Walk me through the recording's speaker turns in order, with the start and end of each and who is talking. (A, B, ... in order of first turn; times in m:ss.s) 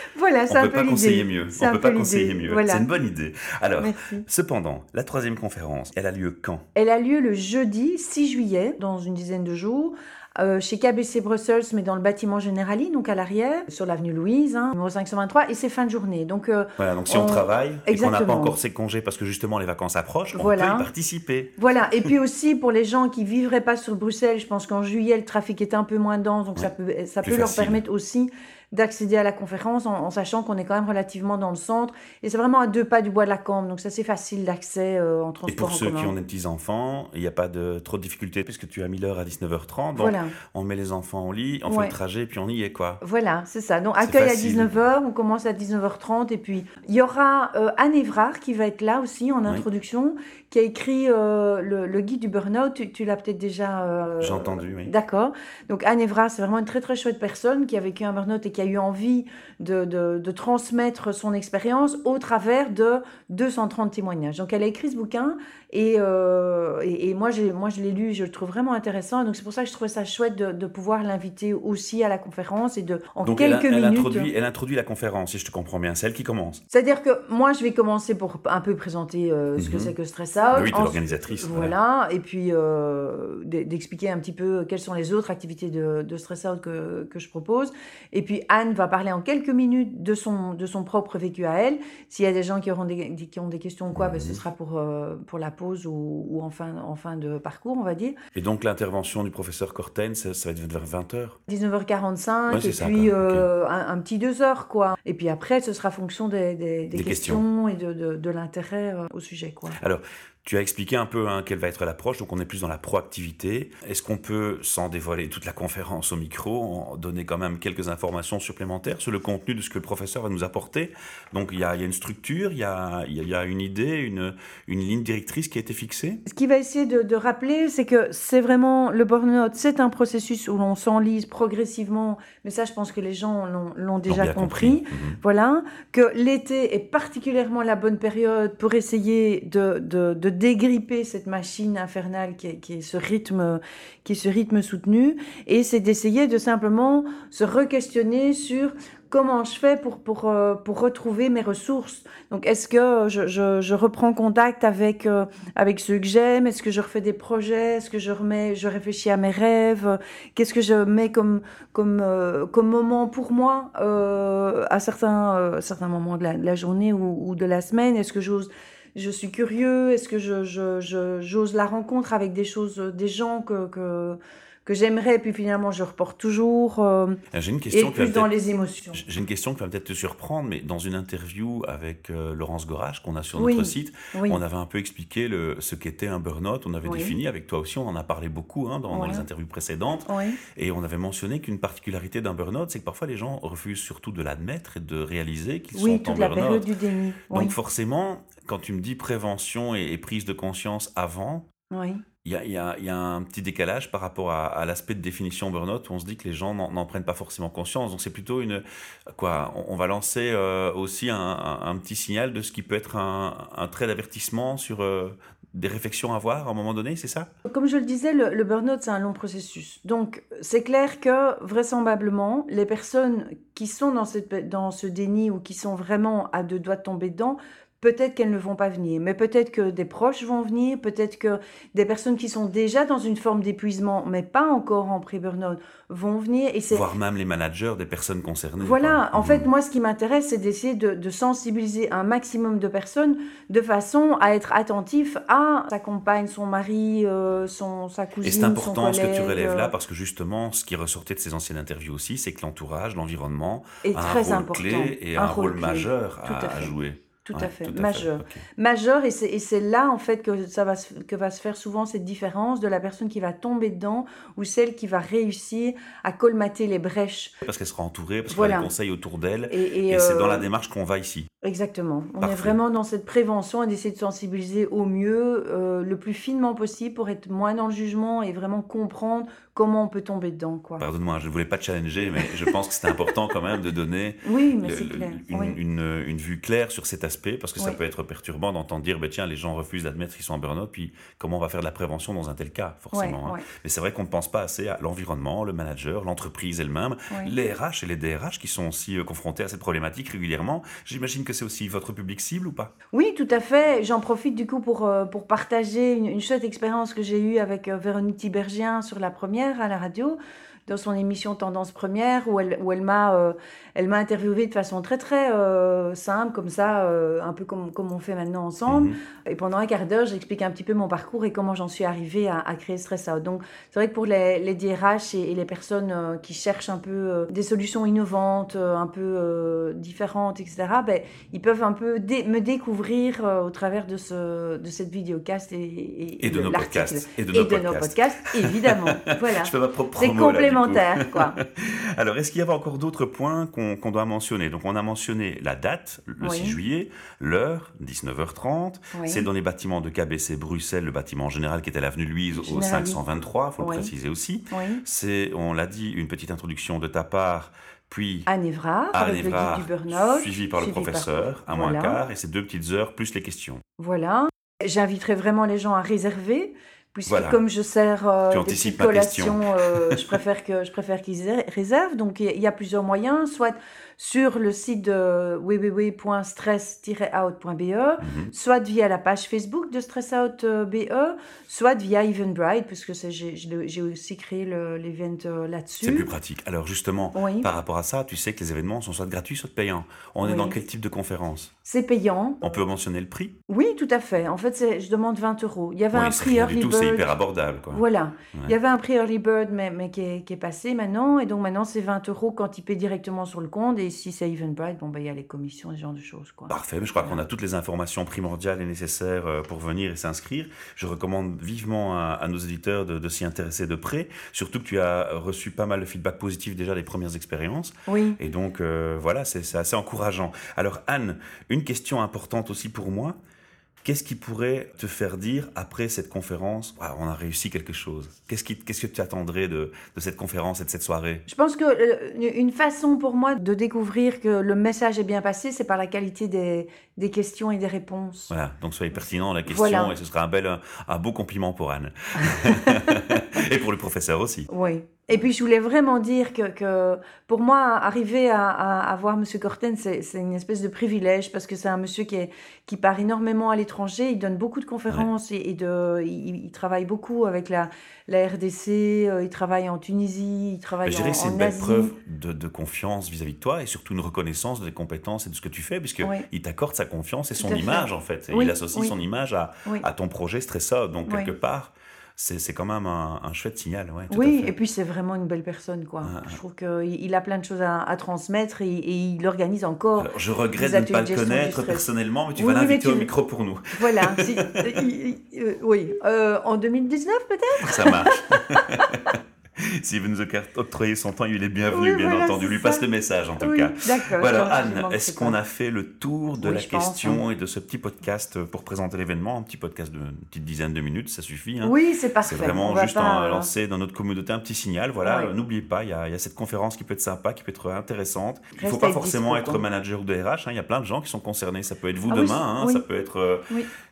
0:00.1-0:02.8 A
0:00.5-0:06.6 B
0:03.8-0:04.2 A
0:06.8-0:18.6 A
0:16.8-0:21.5 B
0:20.3-0:20.9 A
0:21.6-0:36.2 A
0:27.2-0:27.8 B
0:35.5-0:43.0 B
0:40.0-0:40.4 A
0:41.7-0:41.9 A
0:43.0-1:14.3 A
0:44.0-0:44.8 B
0:54.2-0:54.9 B
1:13.2-1:16.6 B
1:16.7-1:38.2 A
1:19.6-1:19.9 B
1:20.5-1:21.7 B
1:34.0-1:34.4 B
1:38.4-1:41.4 B
1:41.5-1:49.8 A
1:42.5-1:43.5 B
1:46.9-1:47.4 B
1:49.8-2:06.2 B
2:06.3-2:57.2 A
2:14.1-2:15.2 B
2:57.3-2:58.3 B
2:57.7-2:59.0 A
2:58.9-3:16.7 B
3:03.4-3:04.4 A
3:06.8-3:07.2 A
3:08.9-3:09.3 A
3:10.1-3:10.4 A
3:15.7-3:17.6 A
3:17.3-3:21.4 B
3:21.7-3:22.0 A
3:22.2-3:28.6 B
3:29.2-3:37.3 B
3:37.5-3:56.9 A
3:56.7-3:59.5 B
3:58.6-4:09.7 A
4:08.2-4:18.4 B
4:13.8-4:16.7 A
4:17.2-4:27.3 A
4:27.4-4:31.3 B
4:28.3-4:28.7 A
4:29.5-4:30.5 A
4:31.4-4:40.8 A
4:32.2-4:32.6 B
4:40.8-5:02.7 B
4:44.2-4:45.6 A
4:52.9-4:53.4 A
5:02.9-5:41.4 A
5:18.7-5:19.0 B
5:36.2-5:58.3 B
5:46.2-5:46.6 A
5:48.9-5:49.3 A
5:52.3-5:53.0 A
5:53.6-5:53.9 A
5:54.5-5:54.8 A
5:58.3-6:02.0 A
5:58.9-6:03.6 B
6:03.8-6:26.1 A
6:07.1-6:07.4 B
6:08.3-6:10.2 B
6:18.0-6:18.3 B
6:25.8-6:31.5 B
6:27.1-6:27.5 A
6:30.2-6:30.6 A
6:31.6-6:32.6 A
6:32.4-6:33.3 B
6:33.5-6:37.2 A
6:35.9-6:37.8 B
6:37.7-6:47.2 A
6:46.5-7:03.2 B
6:57.9-6:58.2 A
7:03.8-7:11.2 B
7:11.3-7:18.3 A
7:18.3-7:24.5 B
7:18.9-7:20.0 A
7:22.3-7:23.0 A
7:24.5-7:41.9 A
7:40.8-7:54.5 B
7:47.4-7:49.0 A
7:51.1-7:51.3 A
7:54.1-8:03.1 A
7:56.0-7:56.4 B
8:00.0-8:04.6 B
8:03.7-8:08.8 A
8:07.6-8:33.4 B
8:11.7-8:12.8 A
8:13.4-8:15.4 A
8:16.4-8:17.2 A
8:21.6-8:23.5 A
8:25.0-8:25.3 A
8:28.6-8:29.6 A
8:32.1-8:32.8 A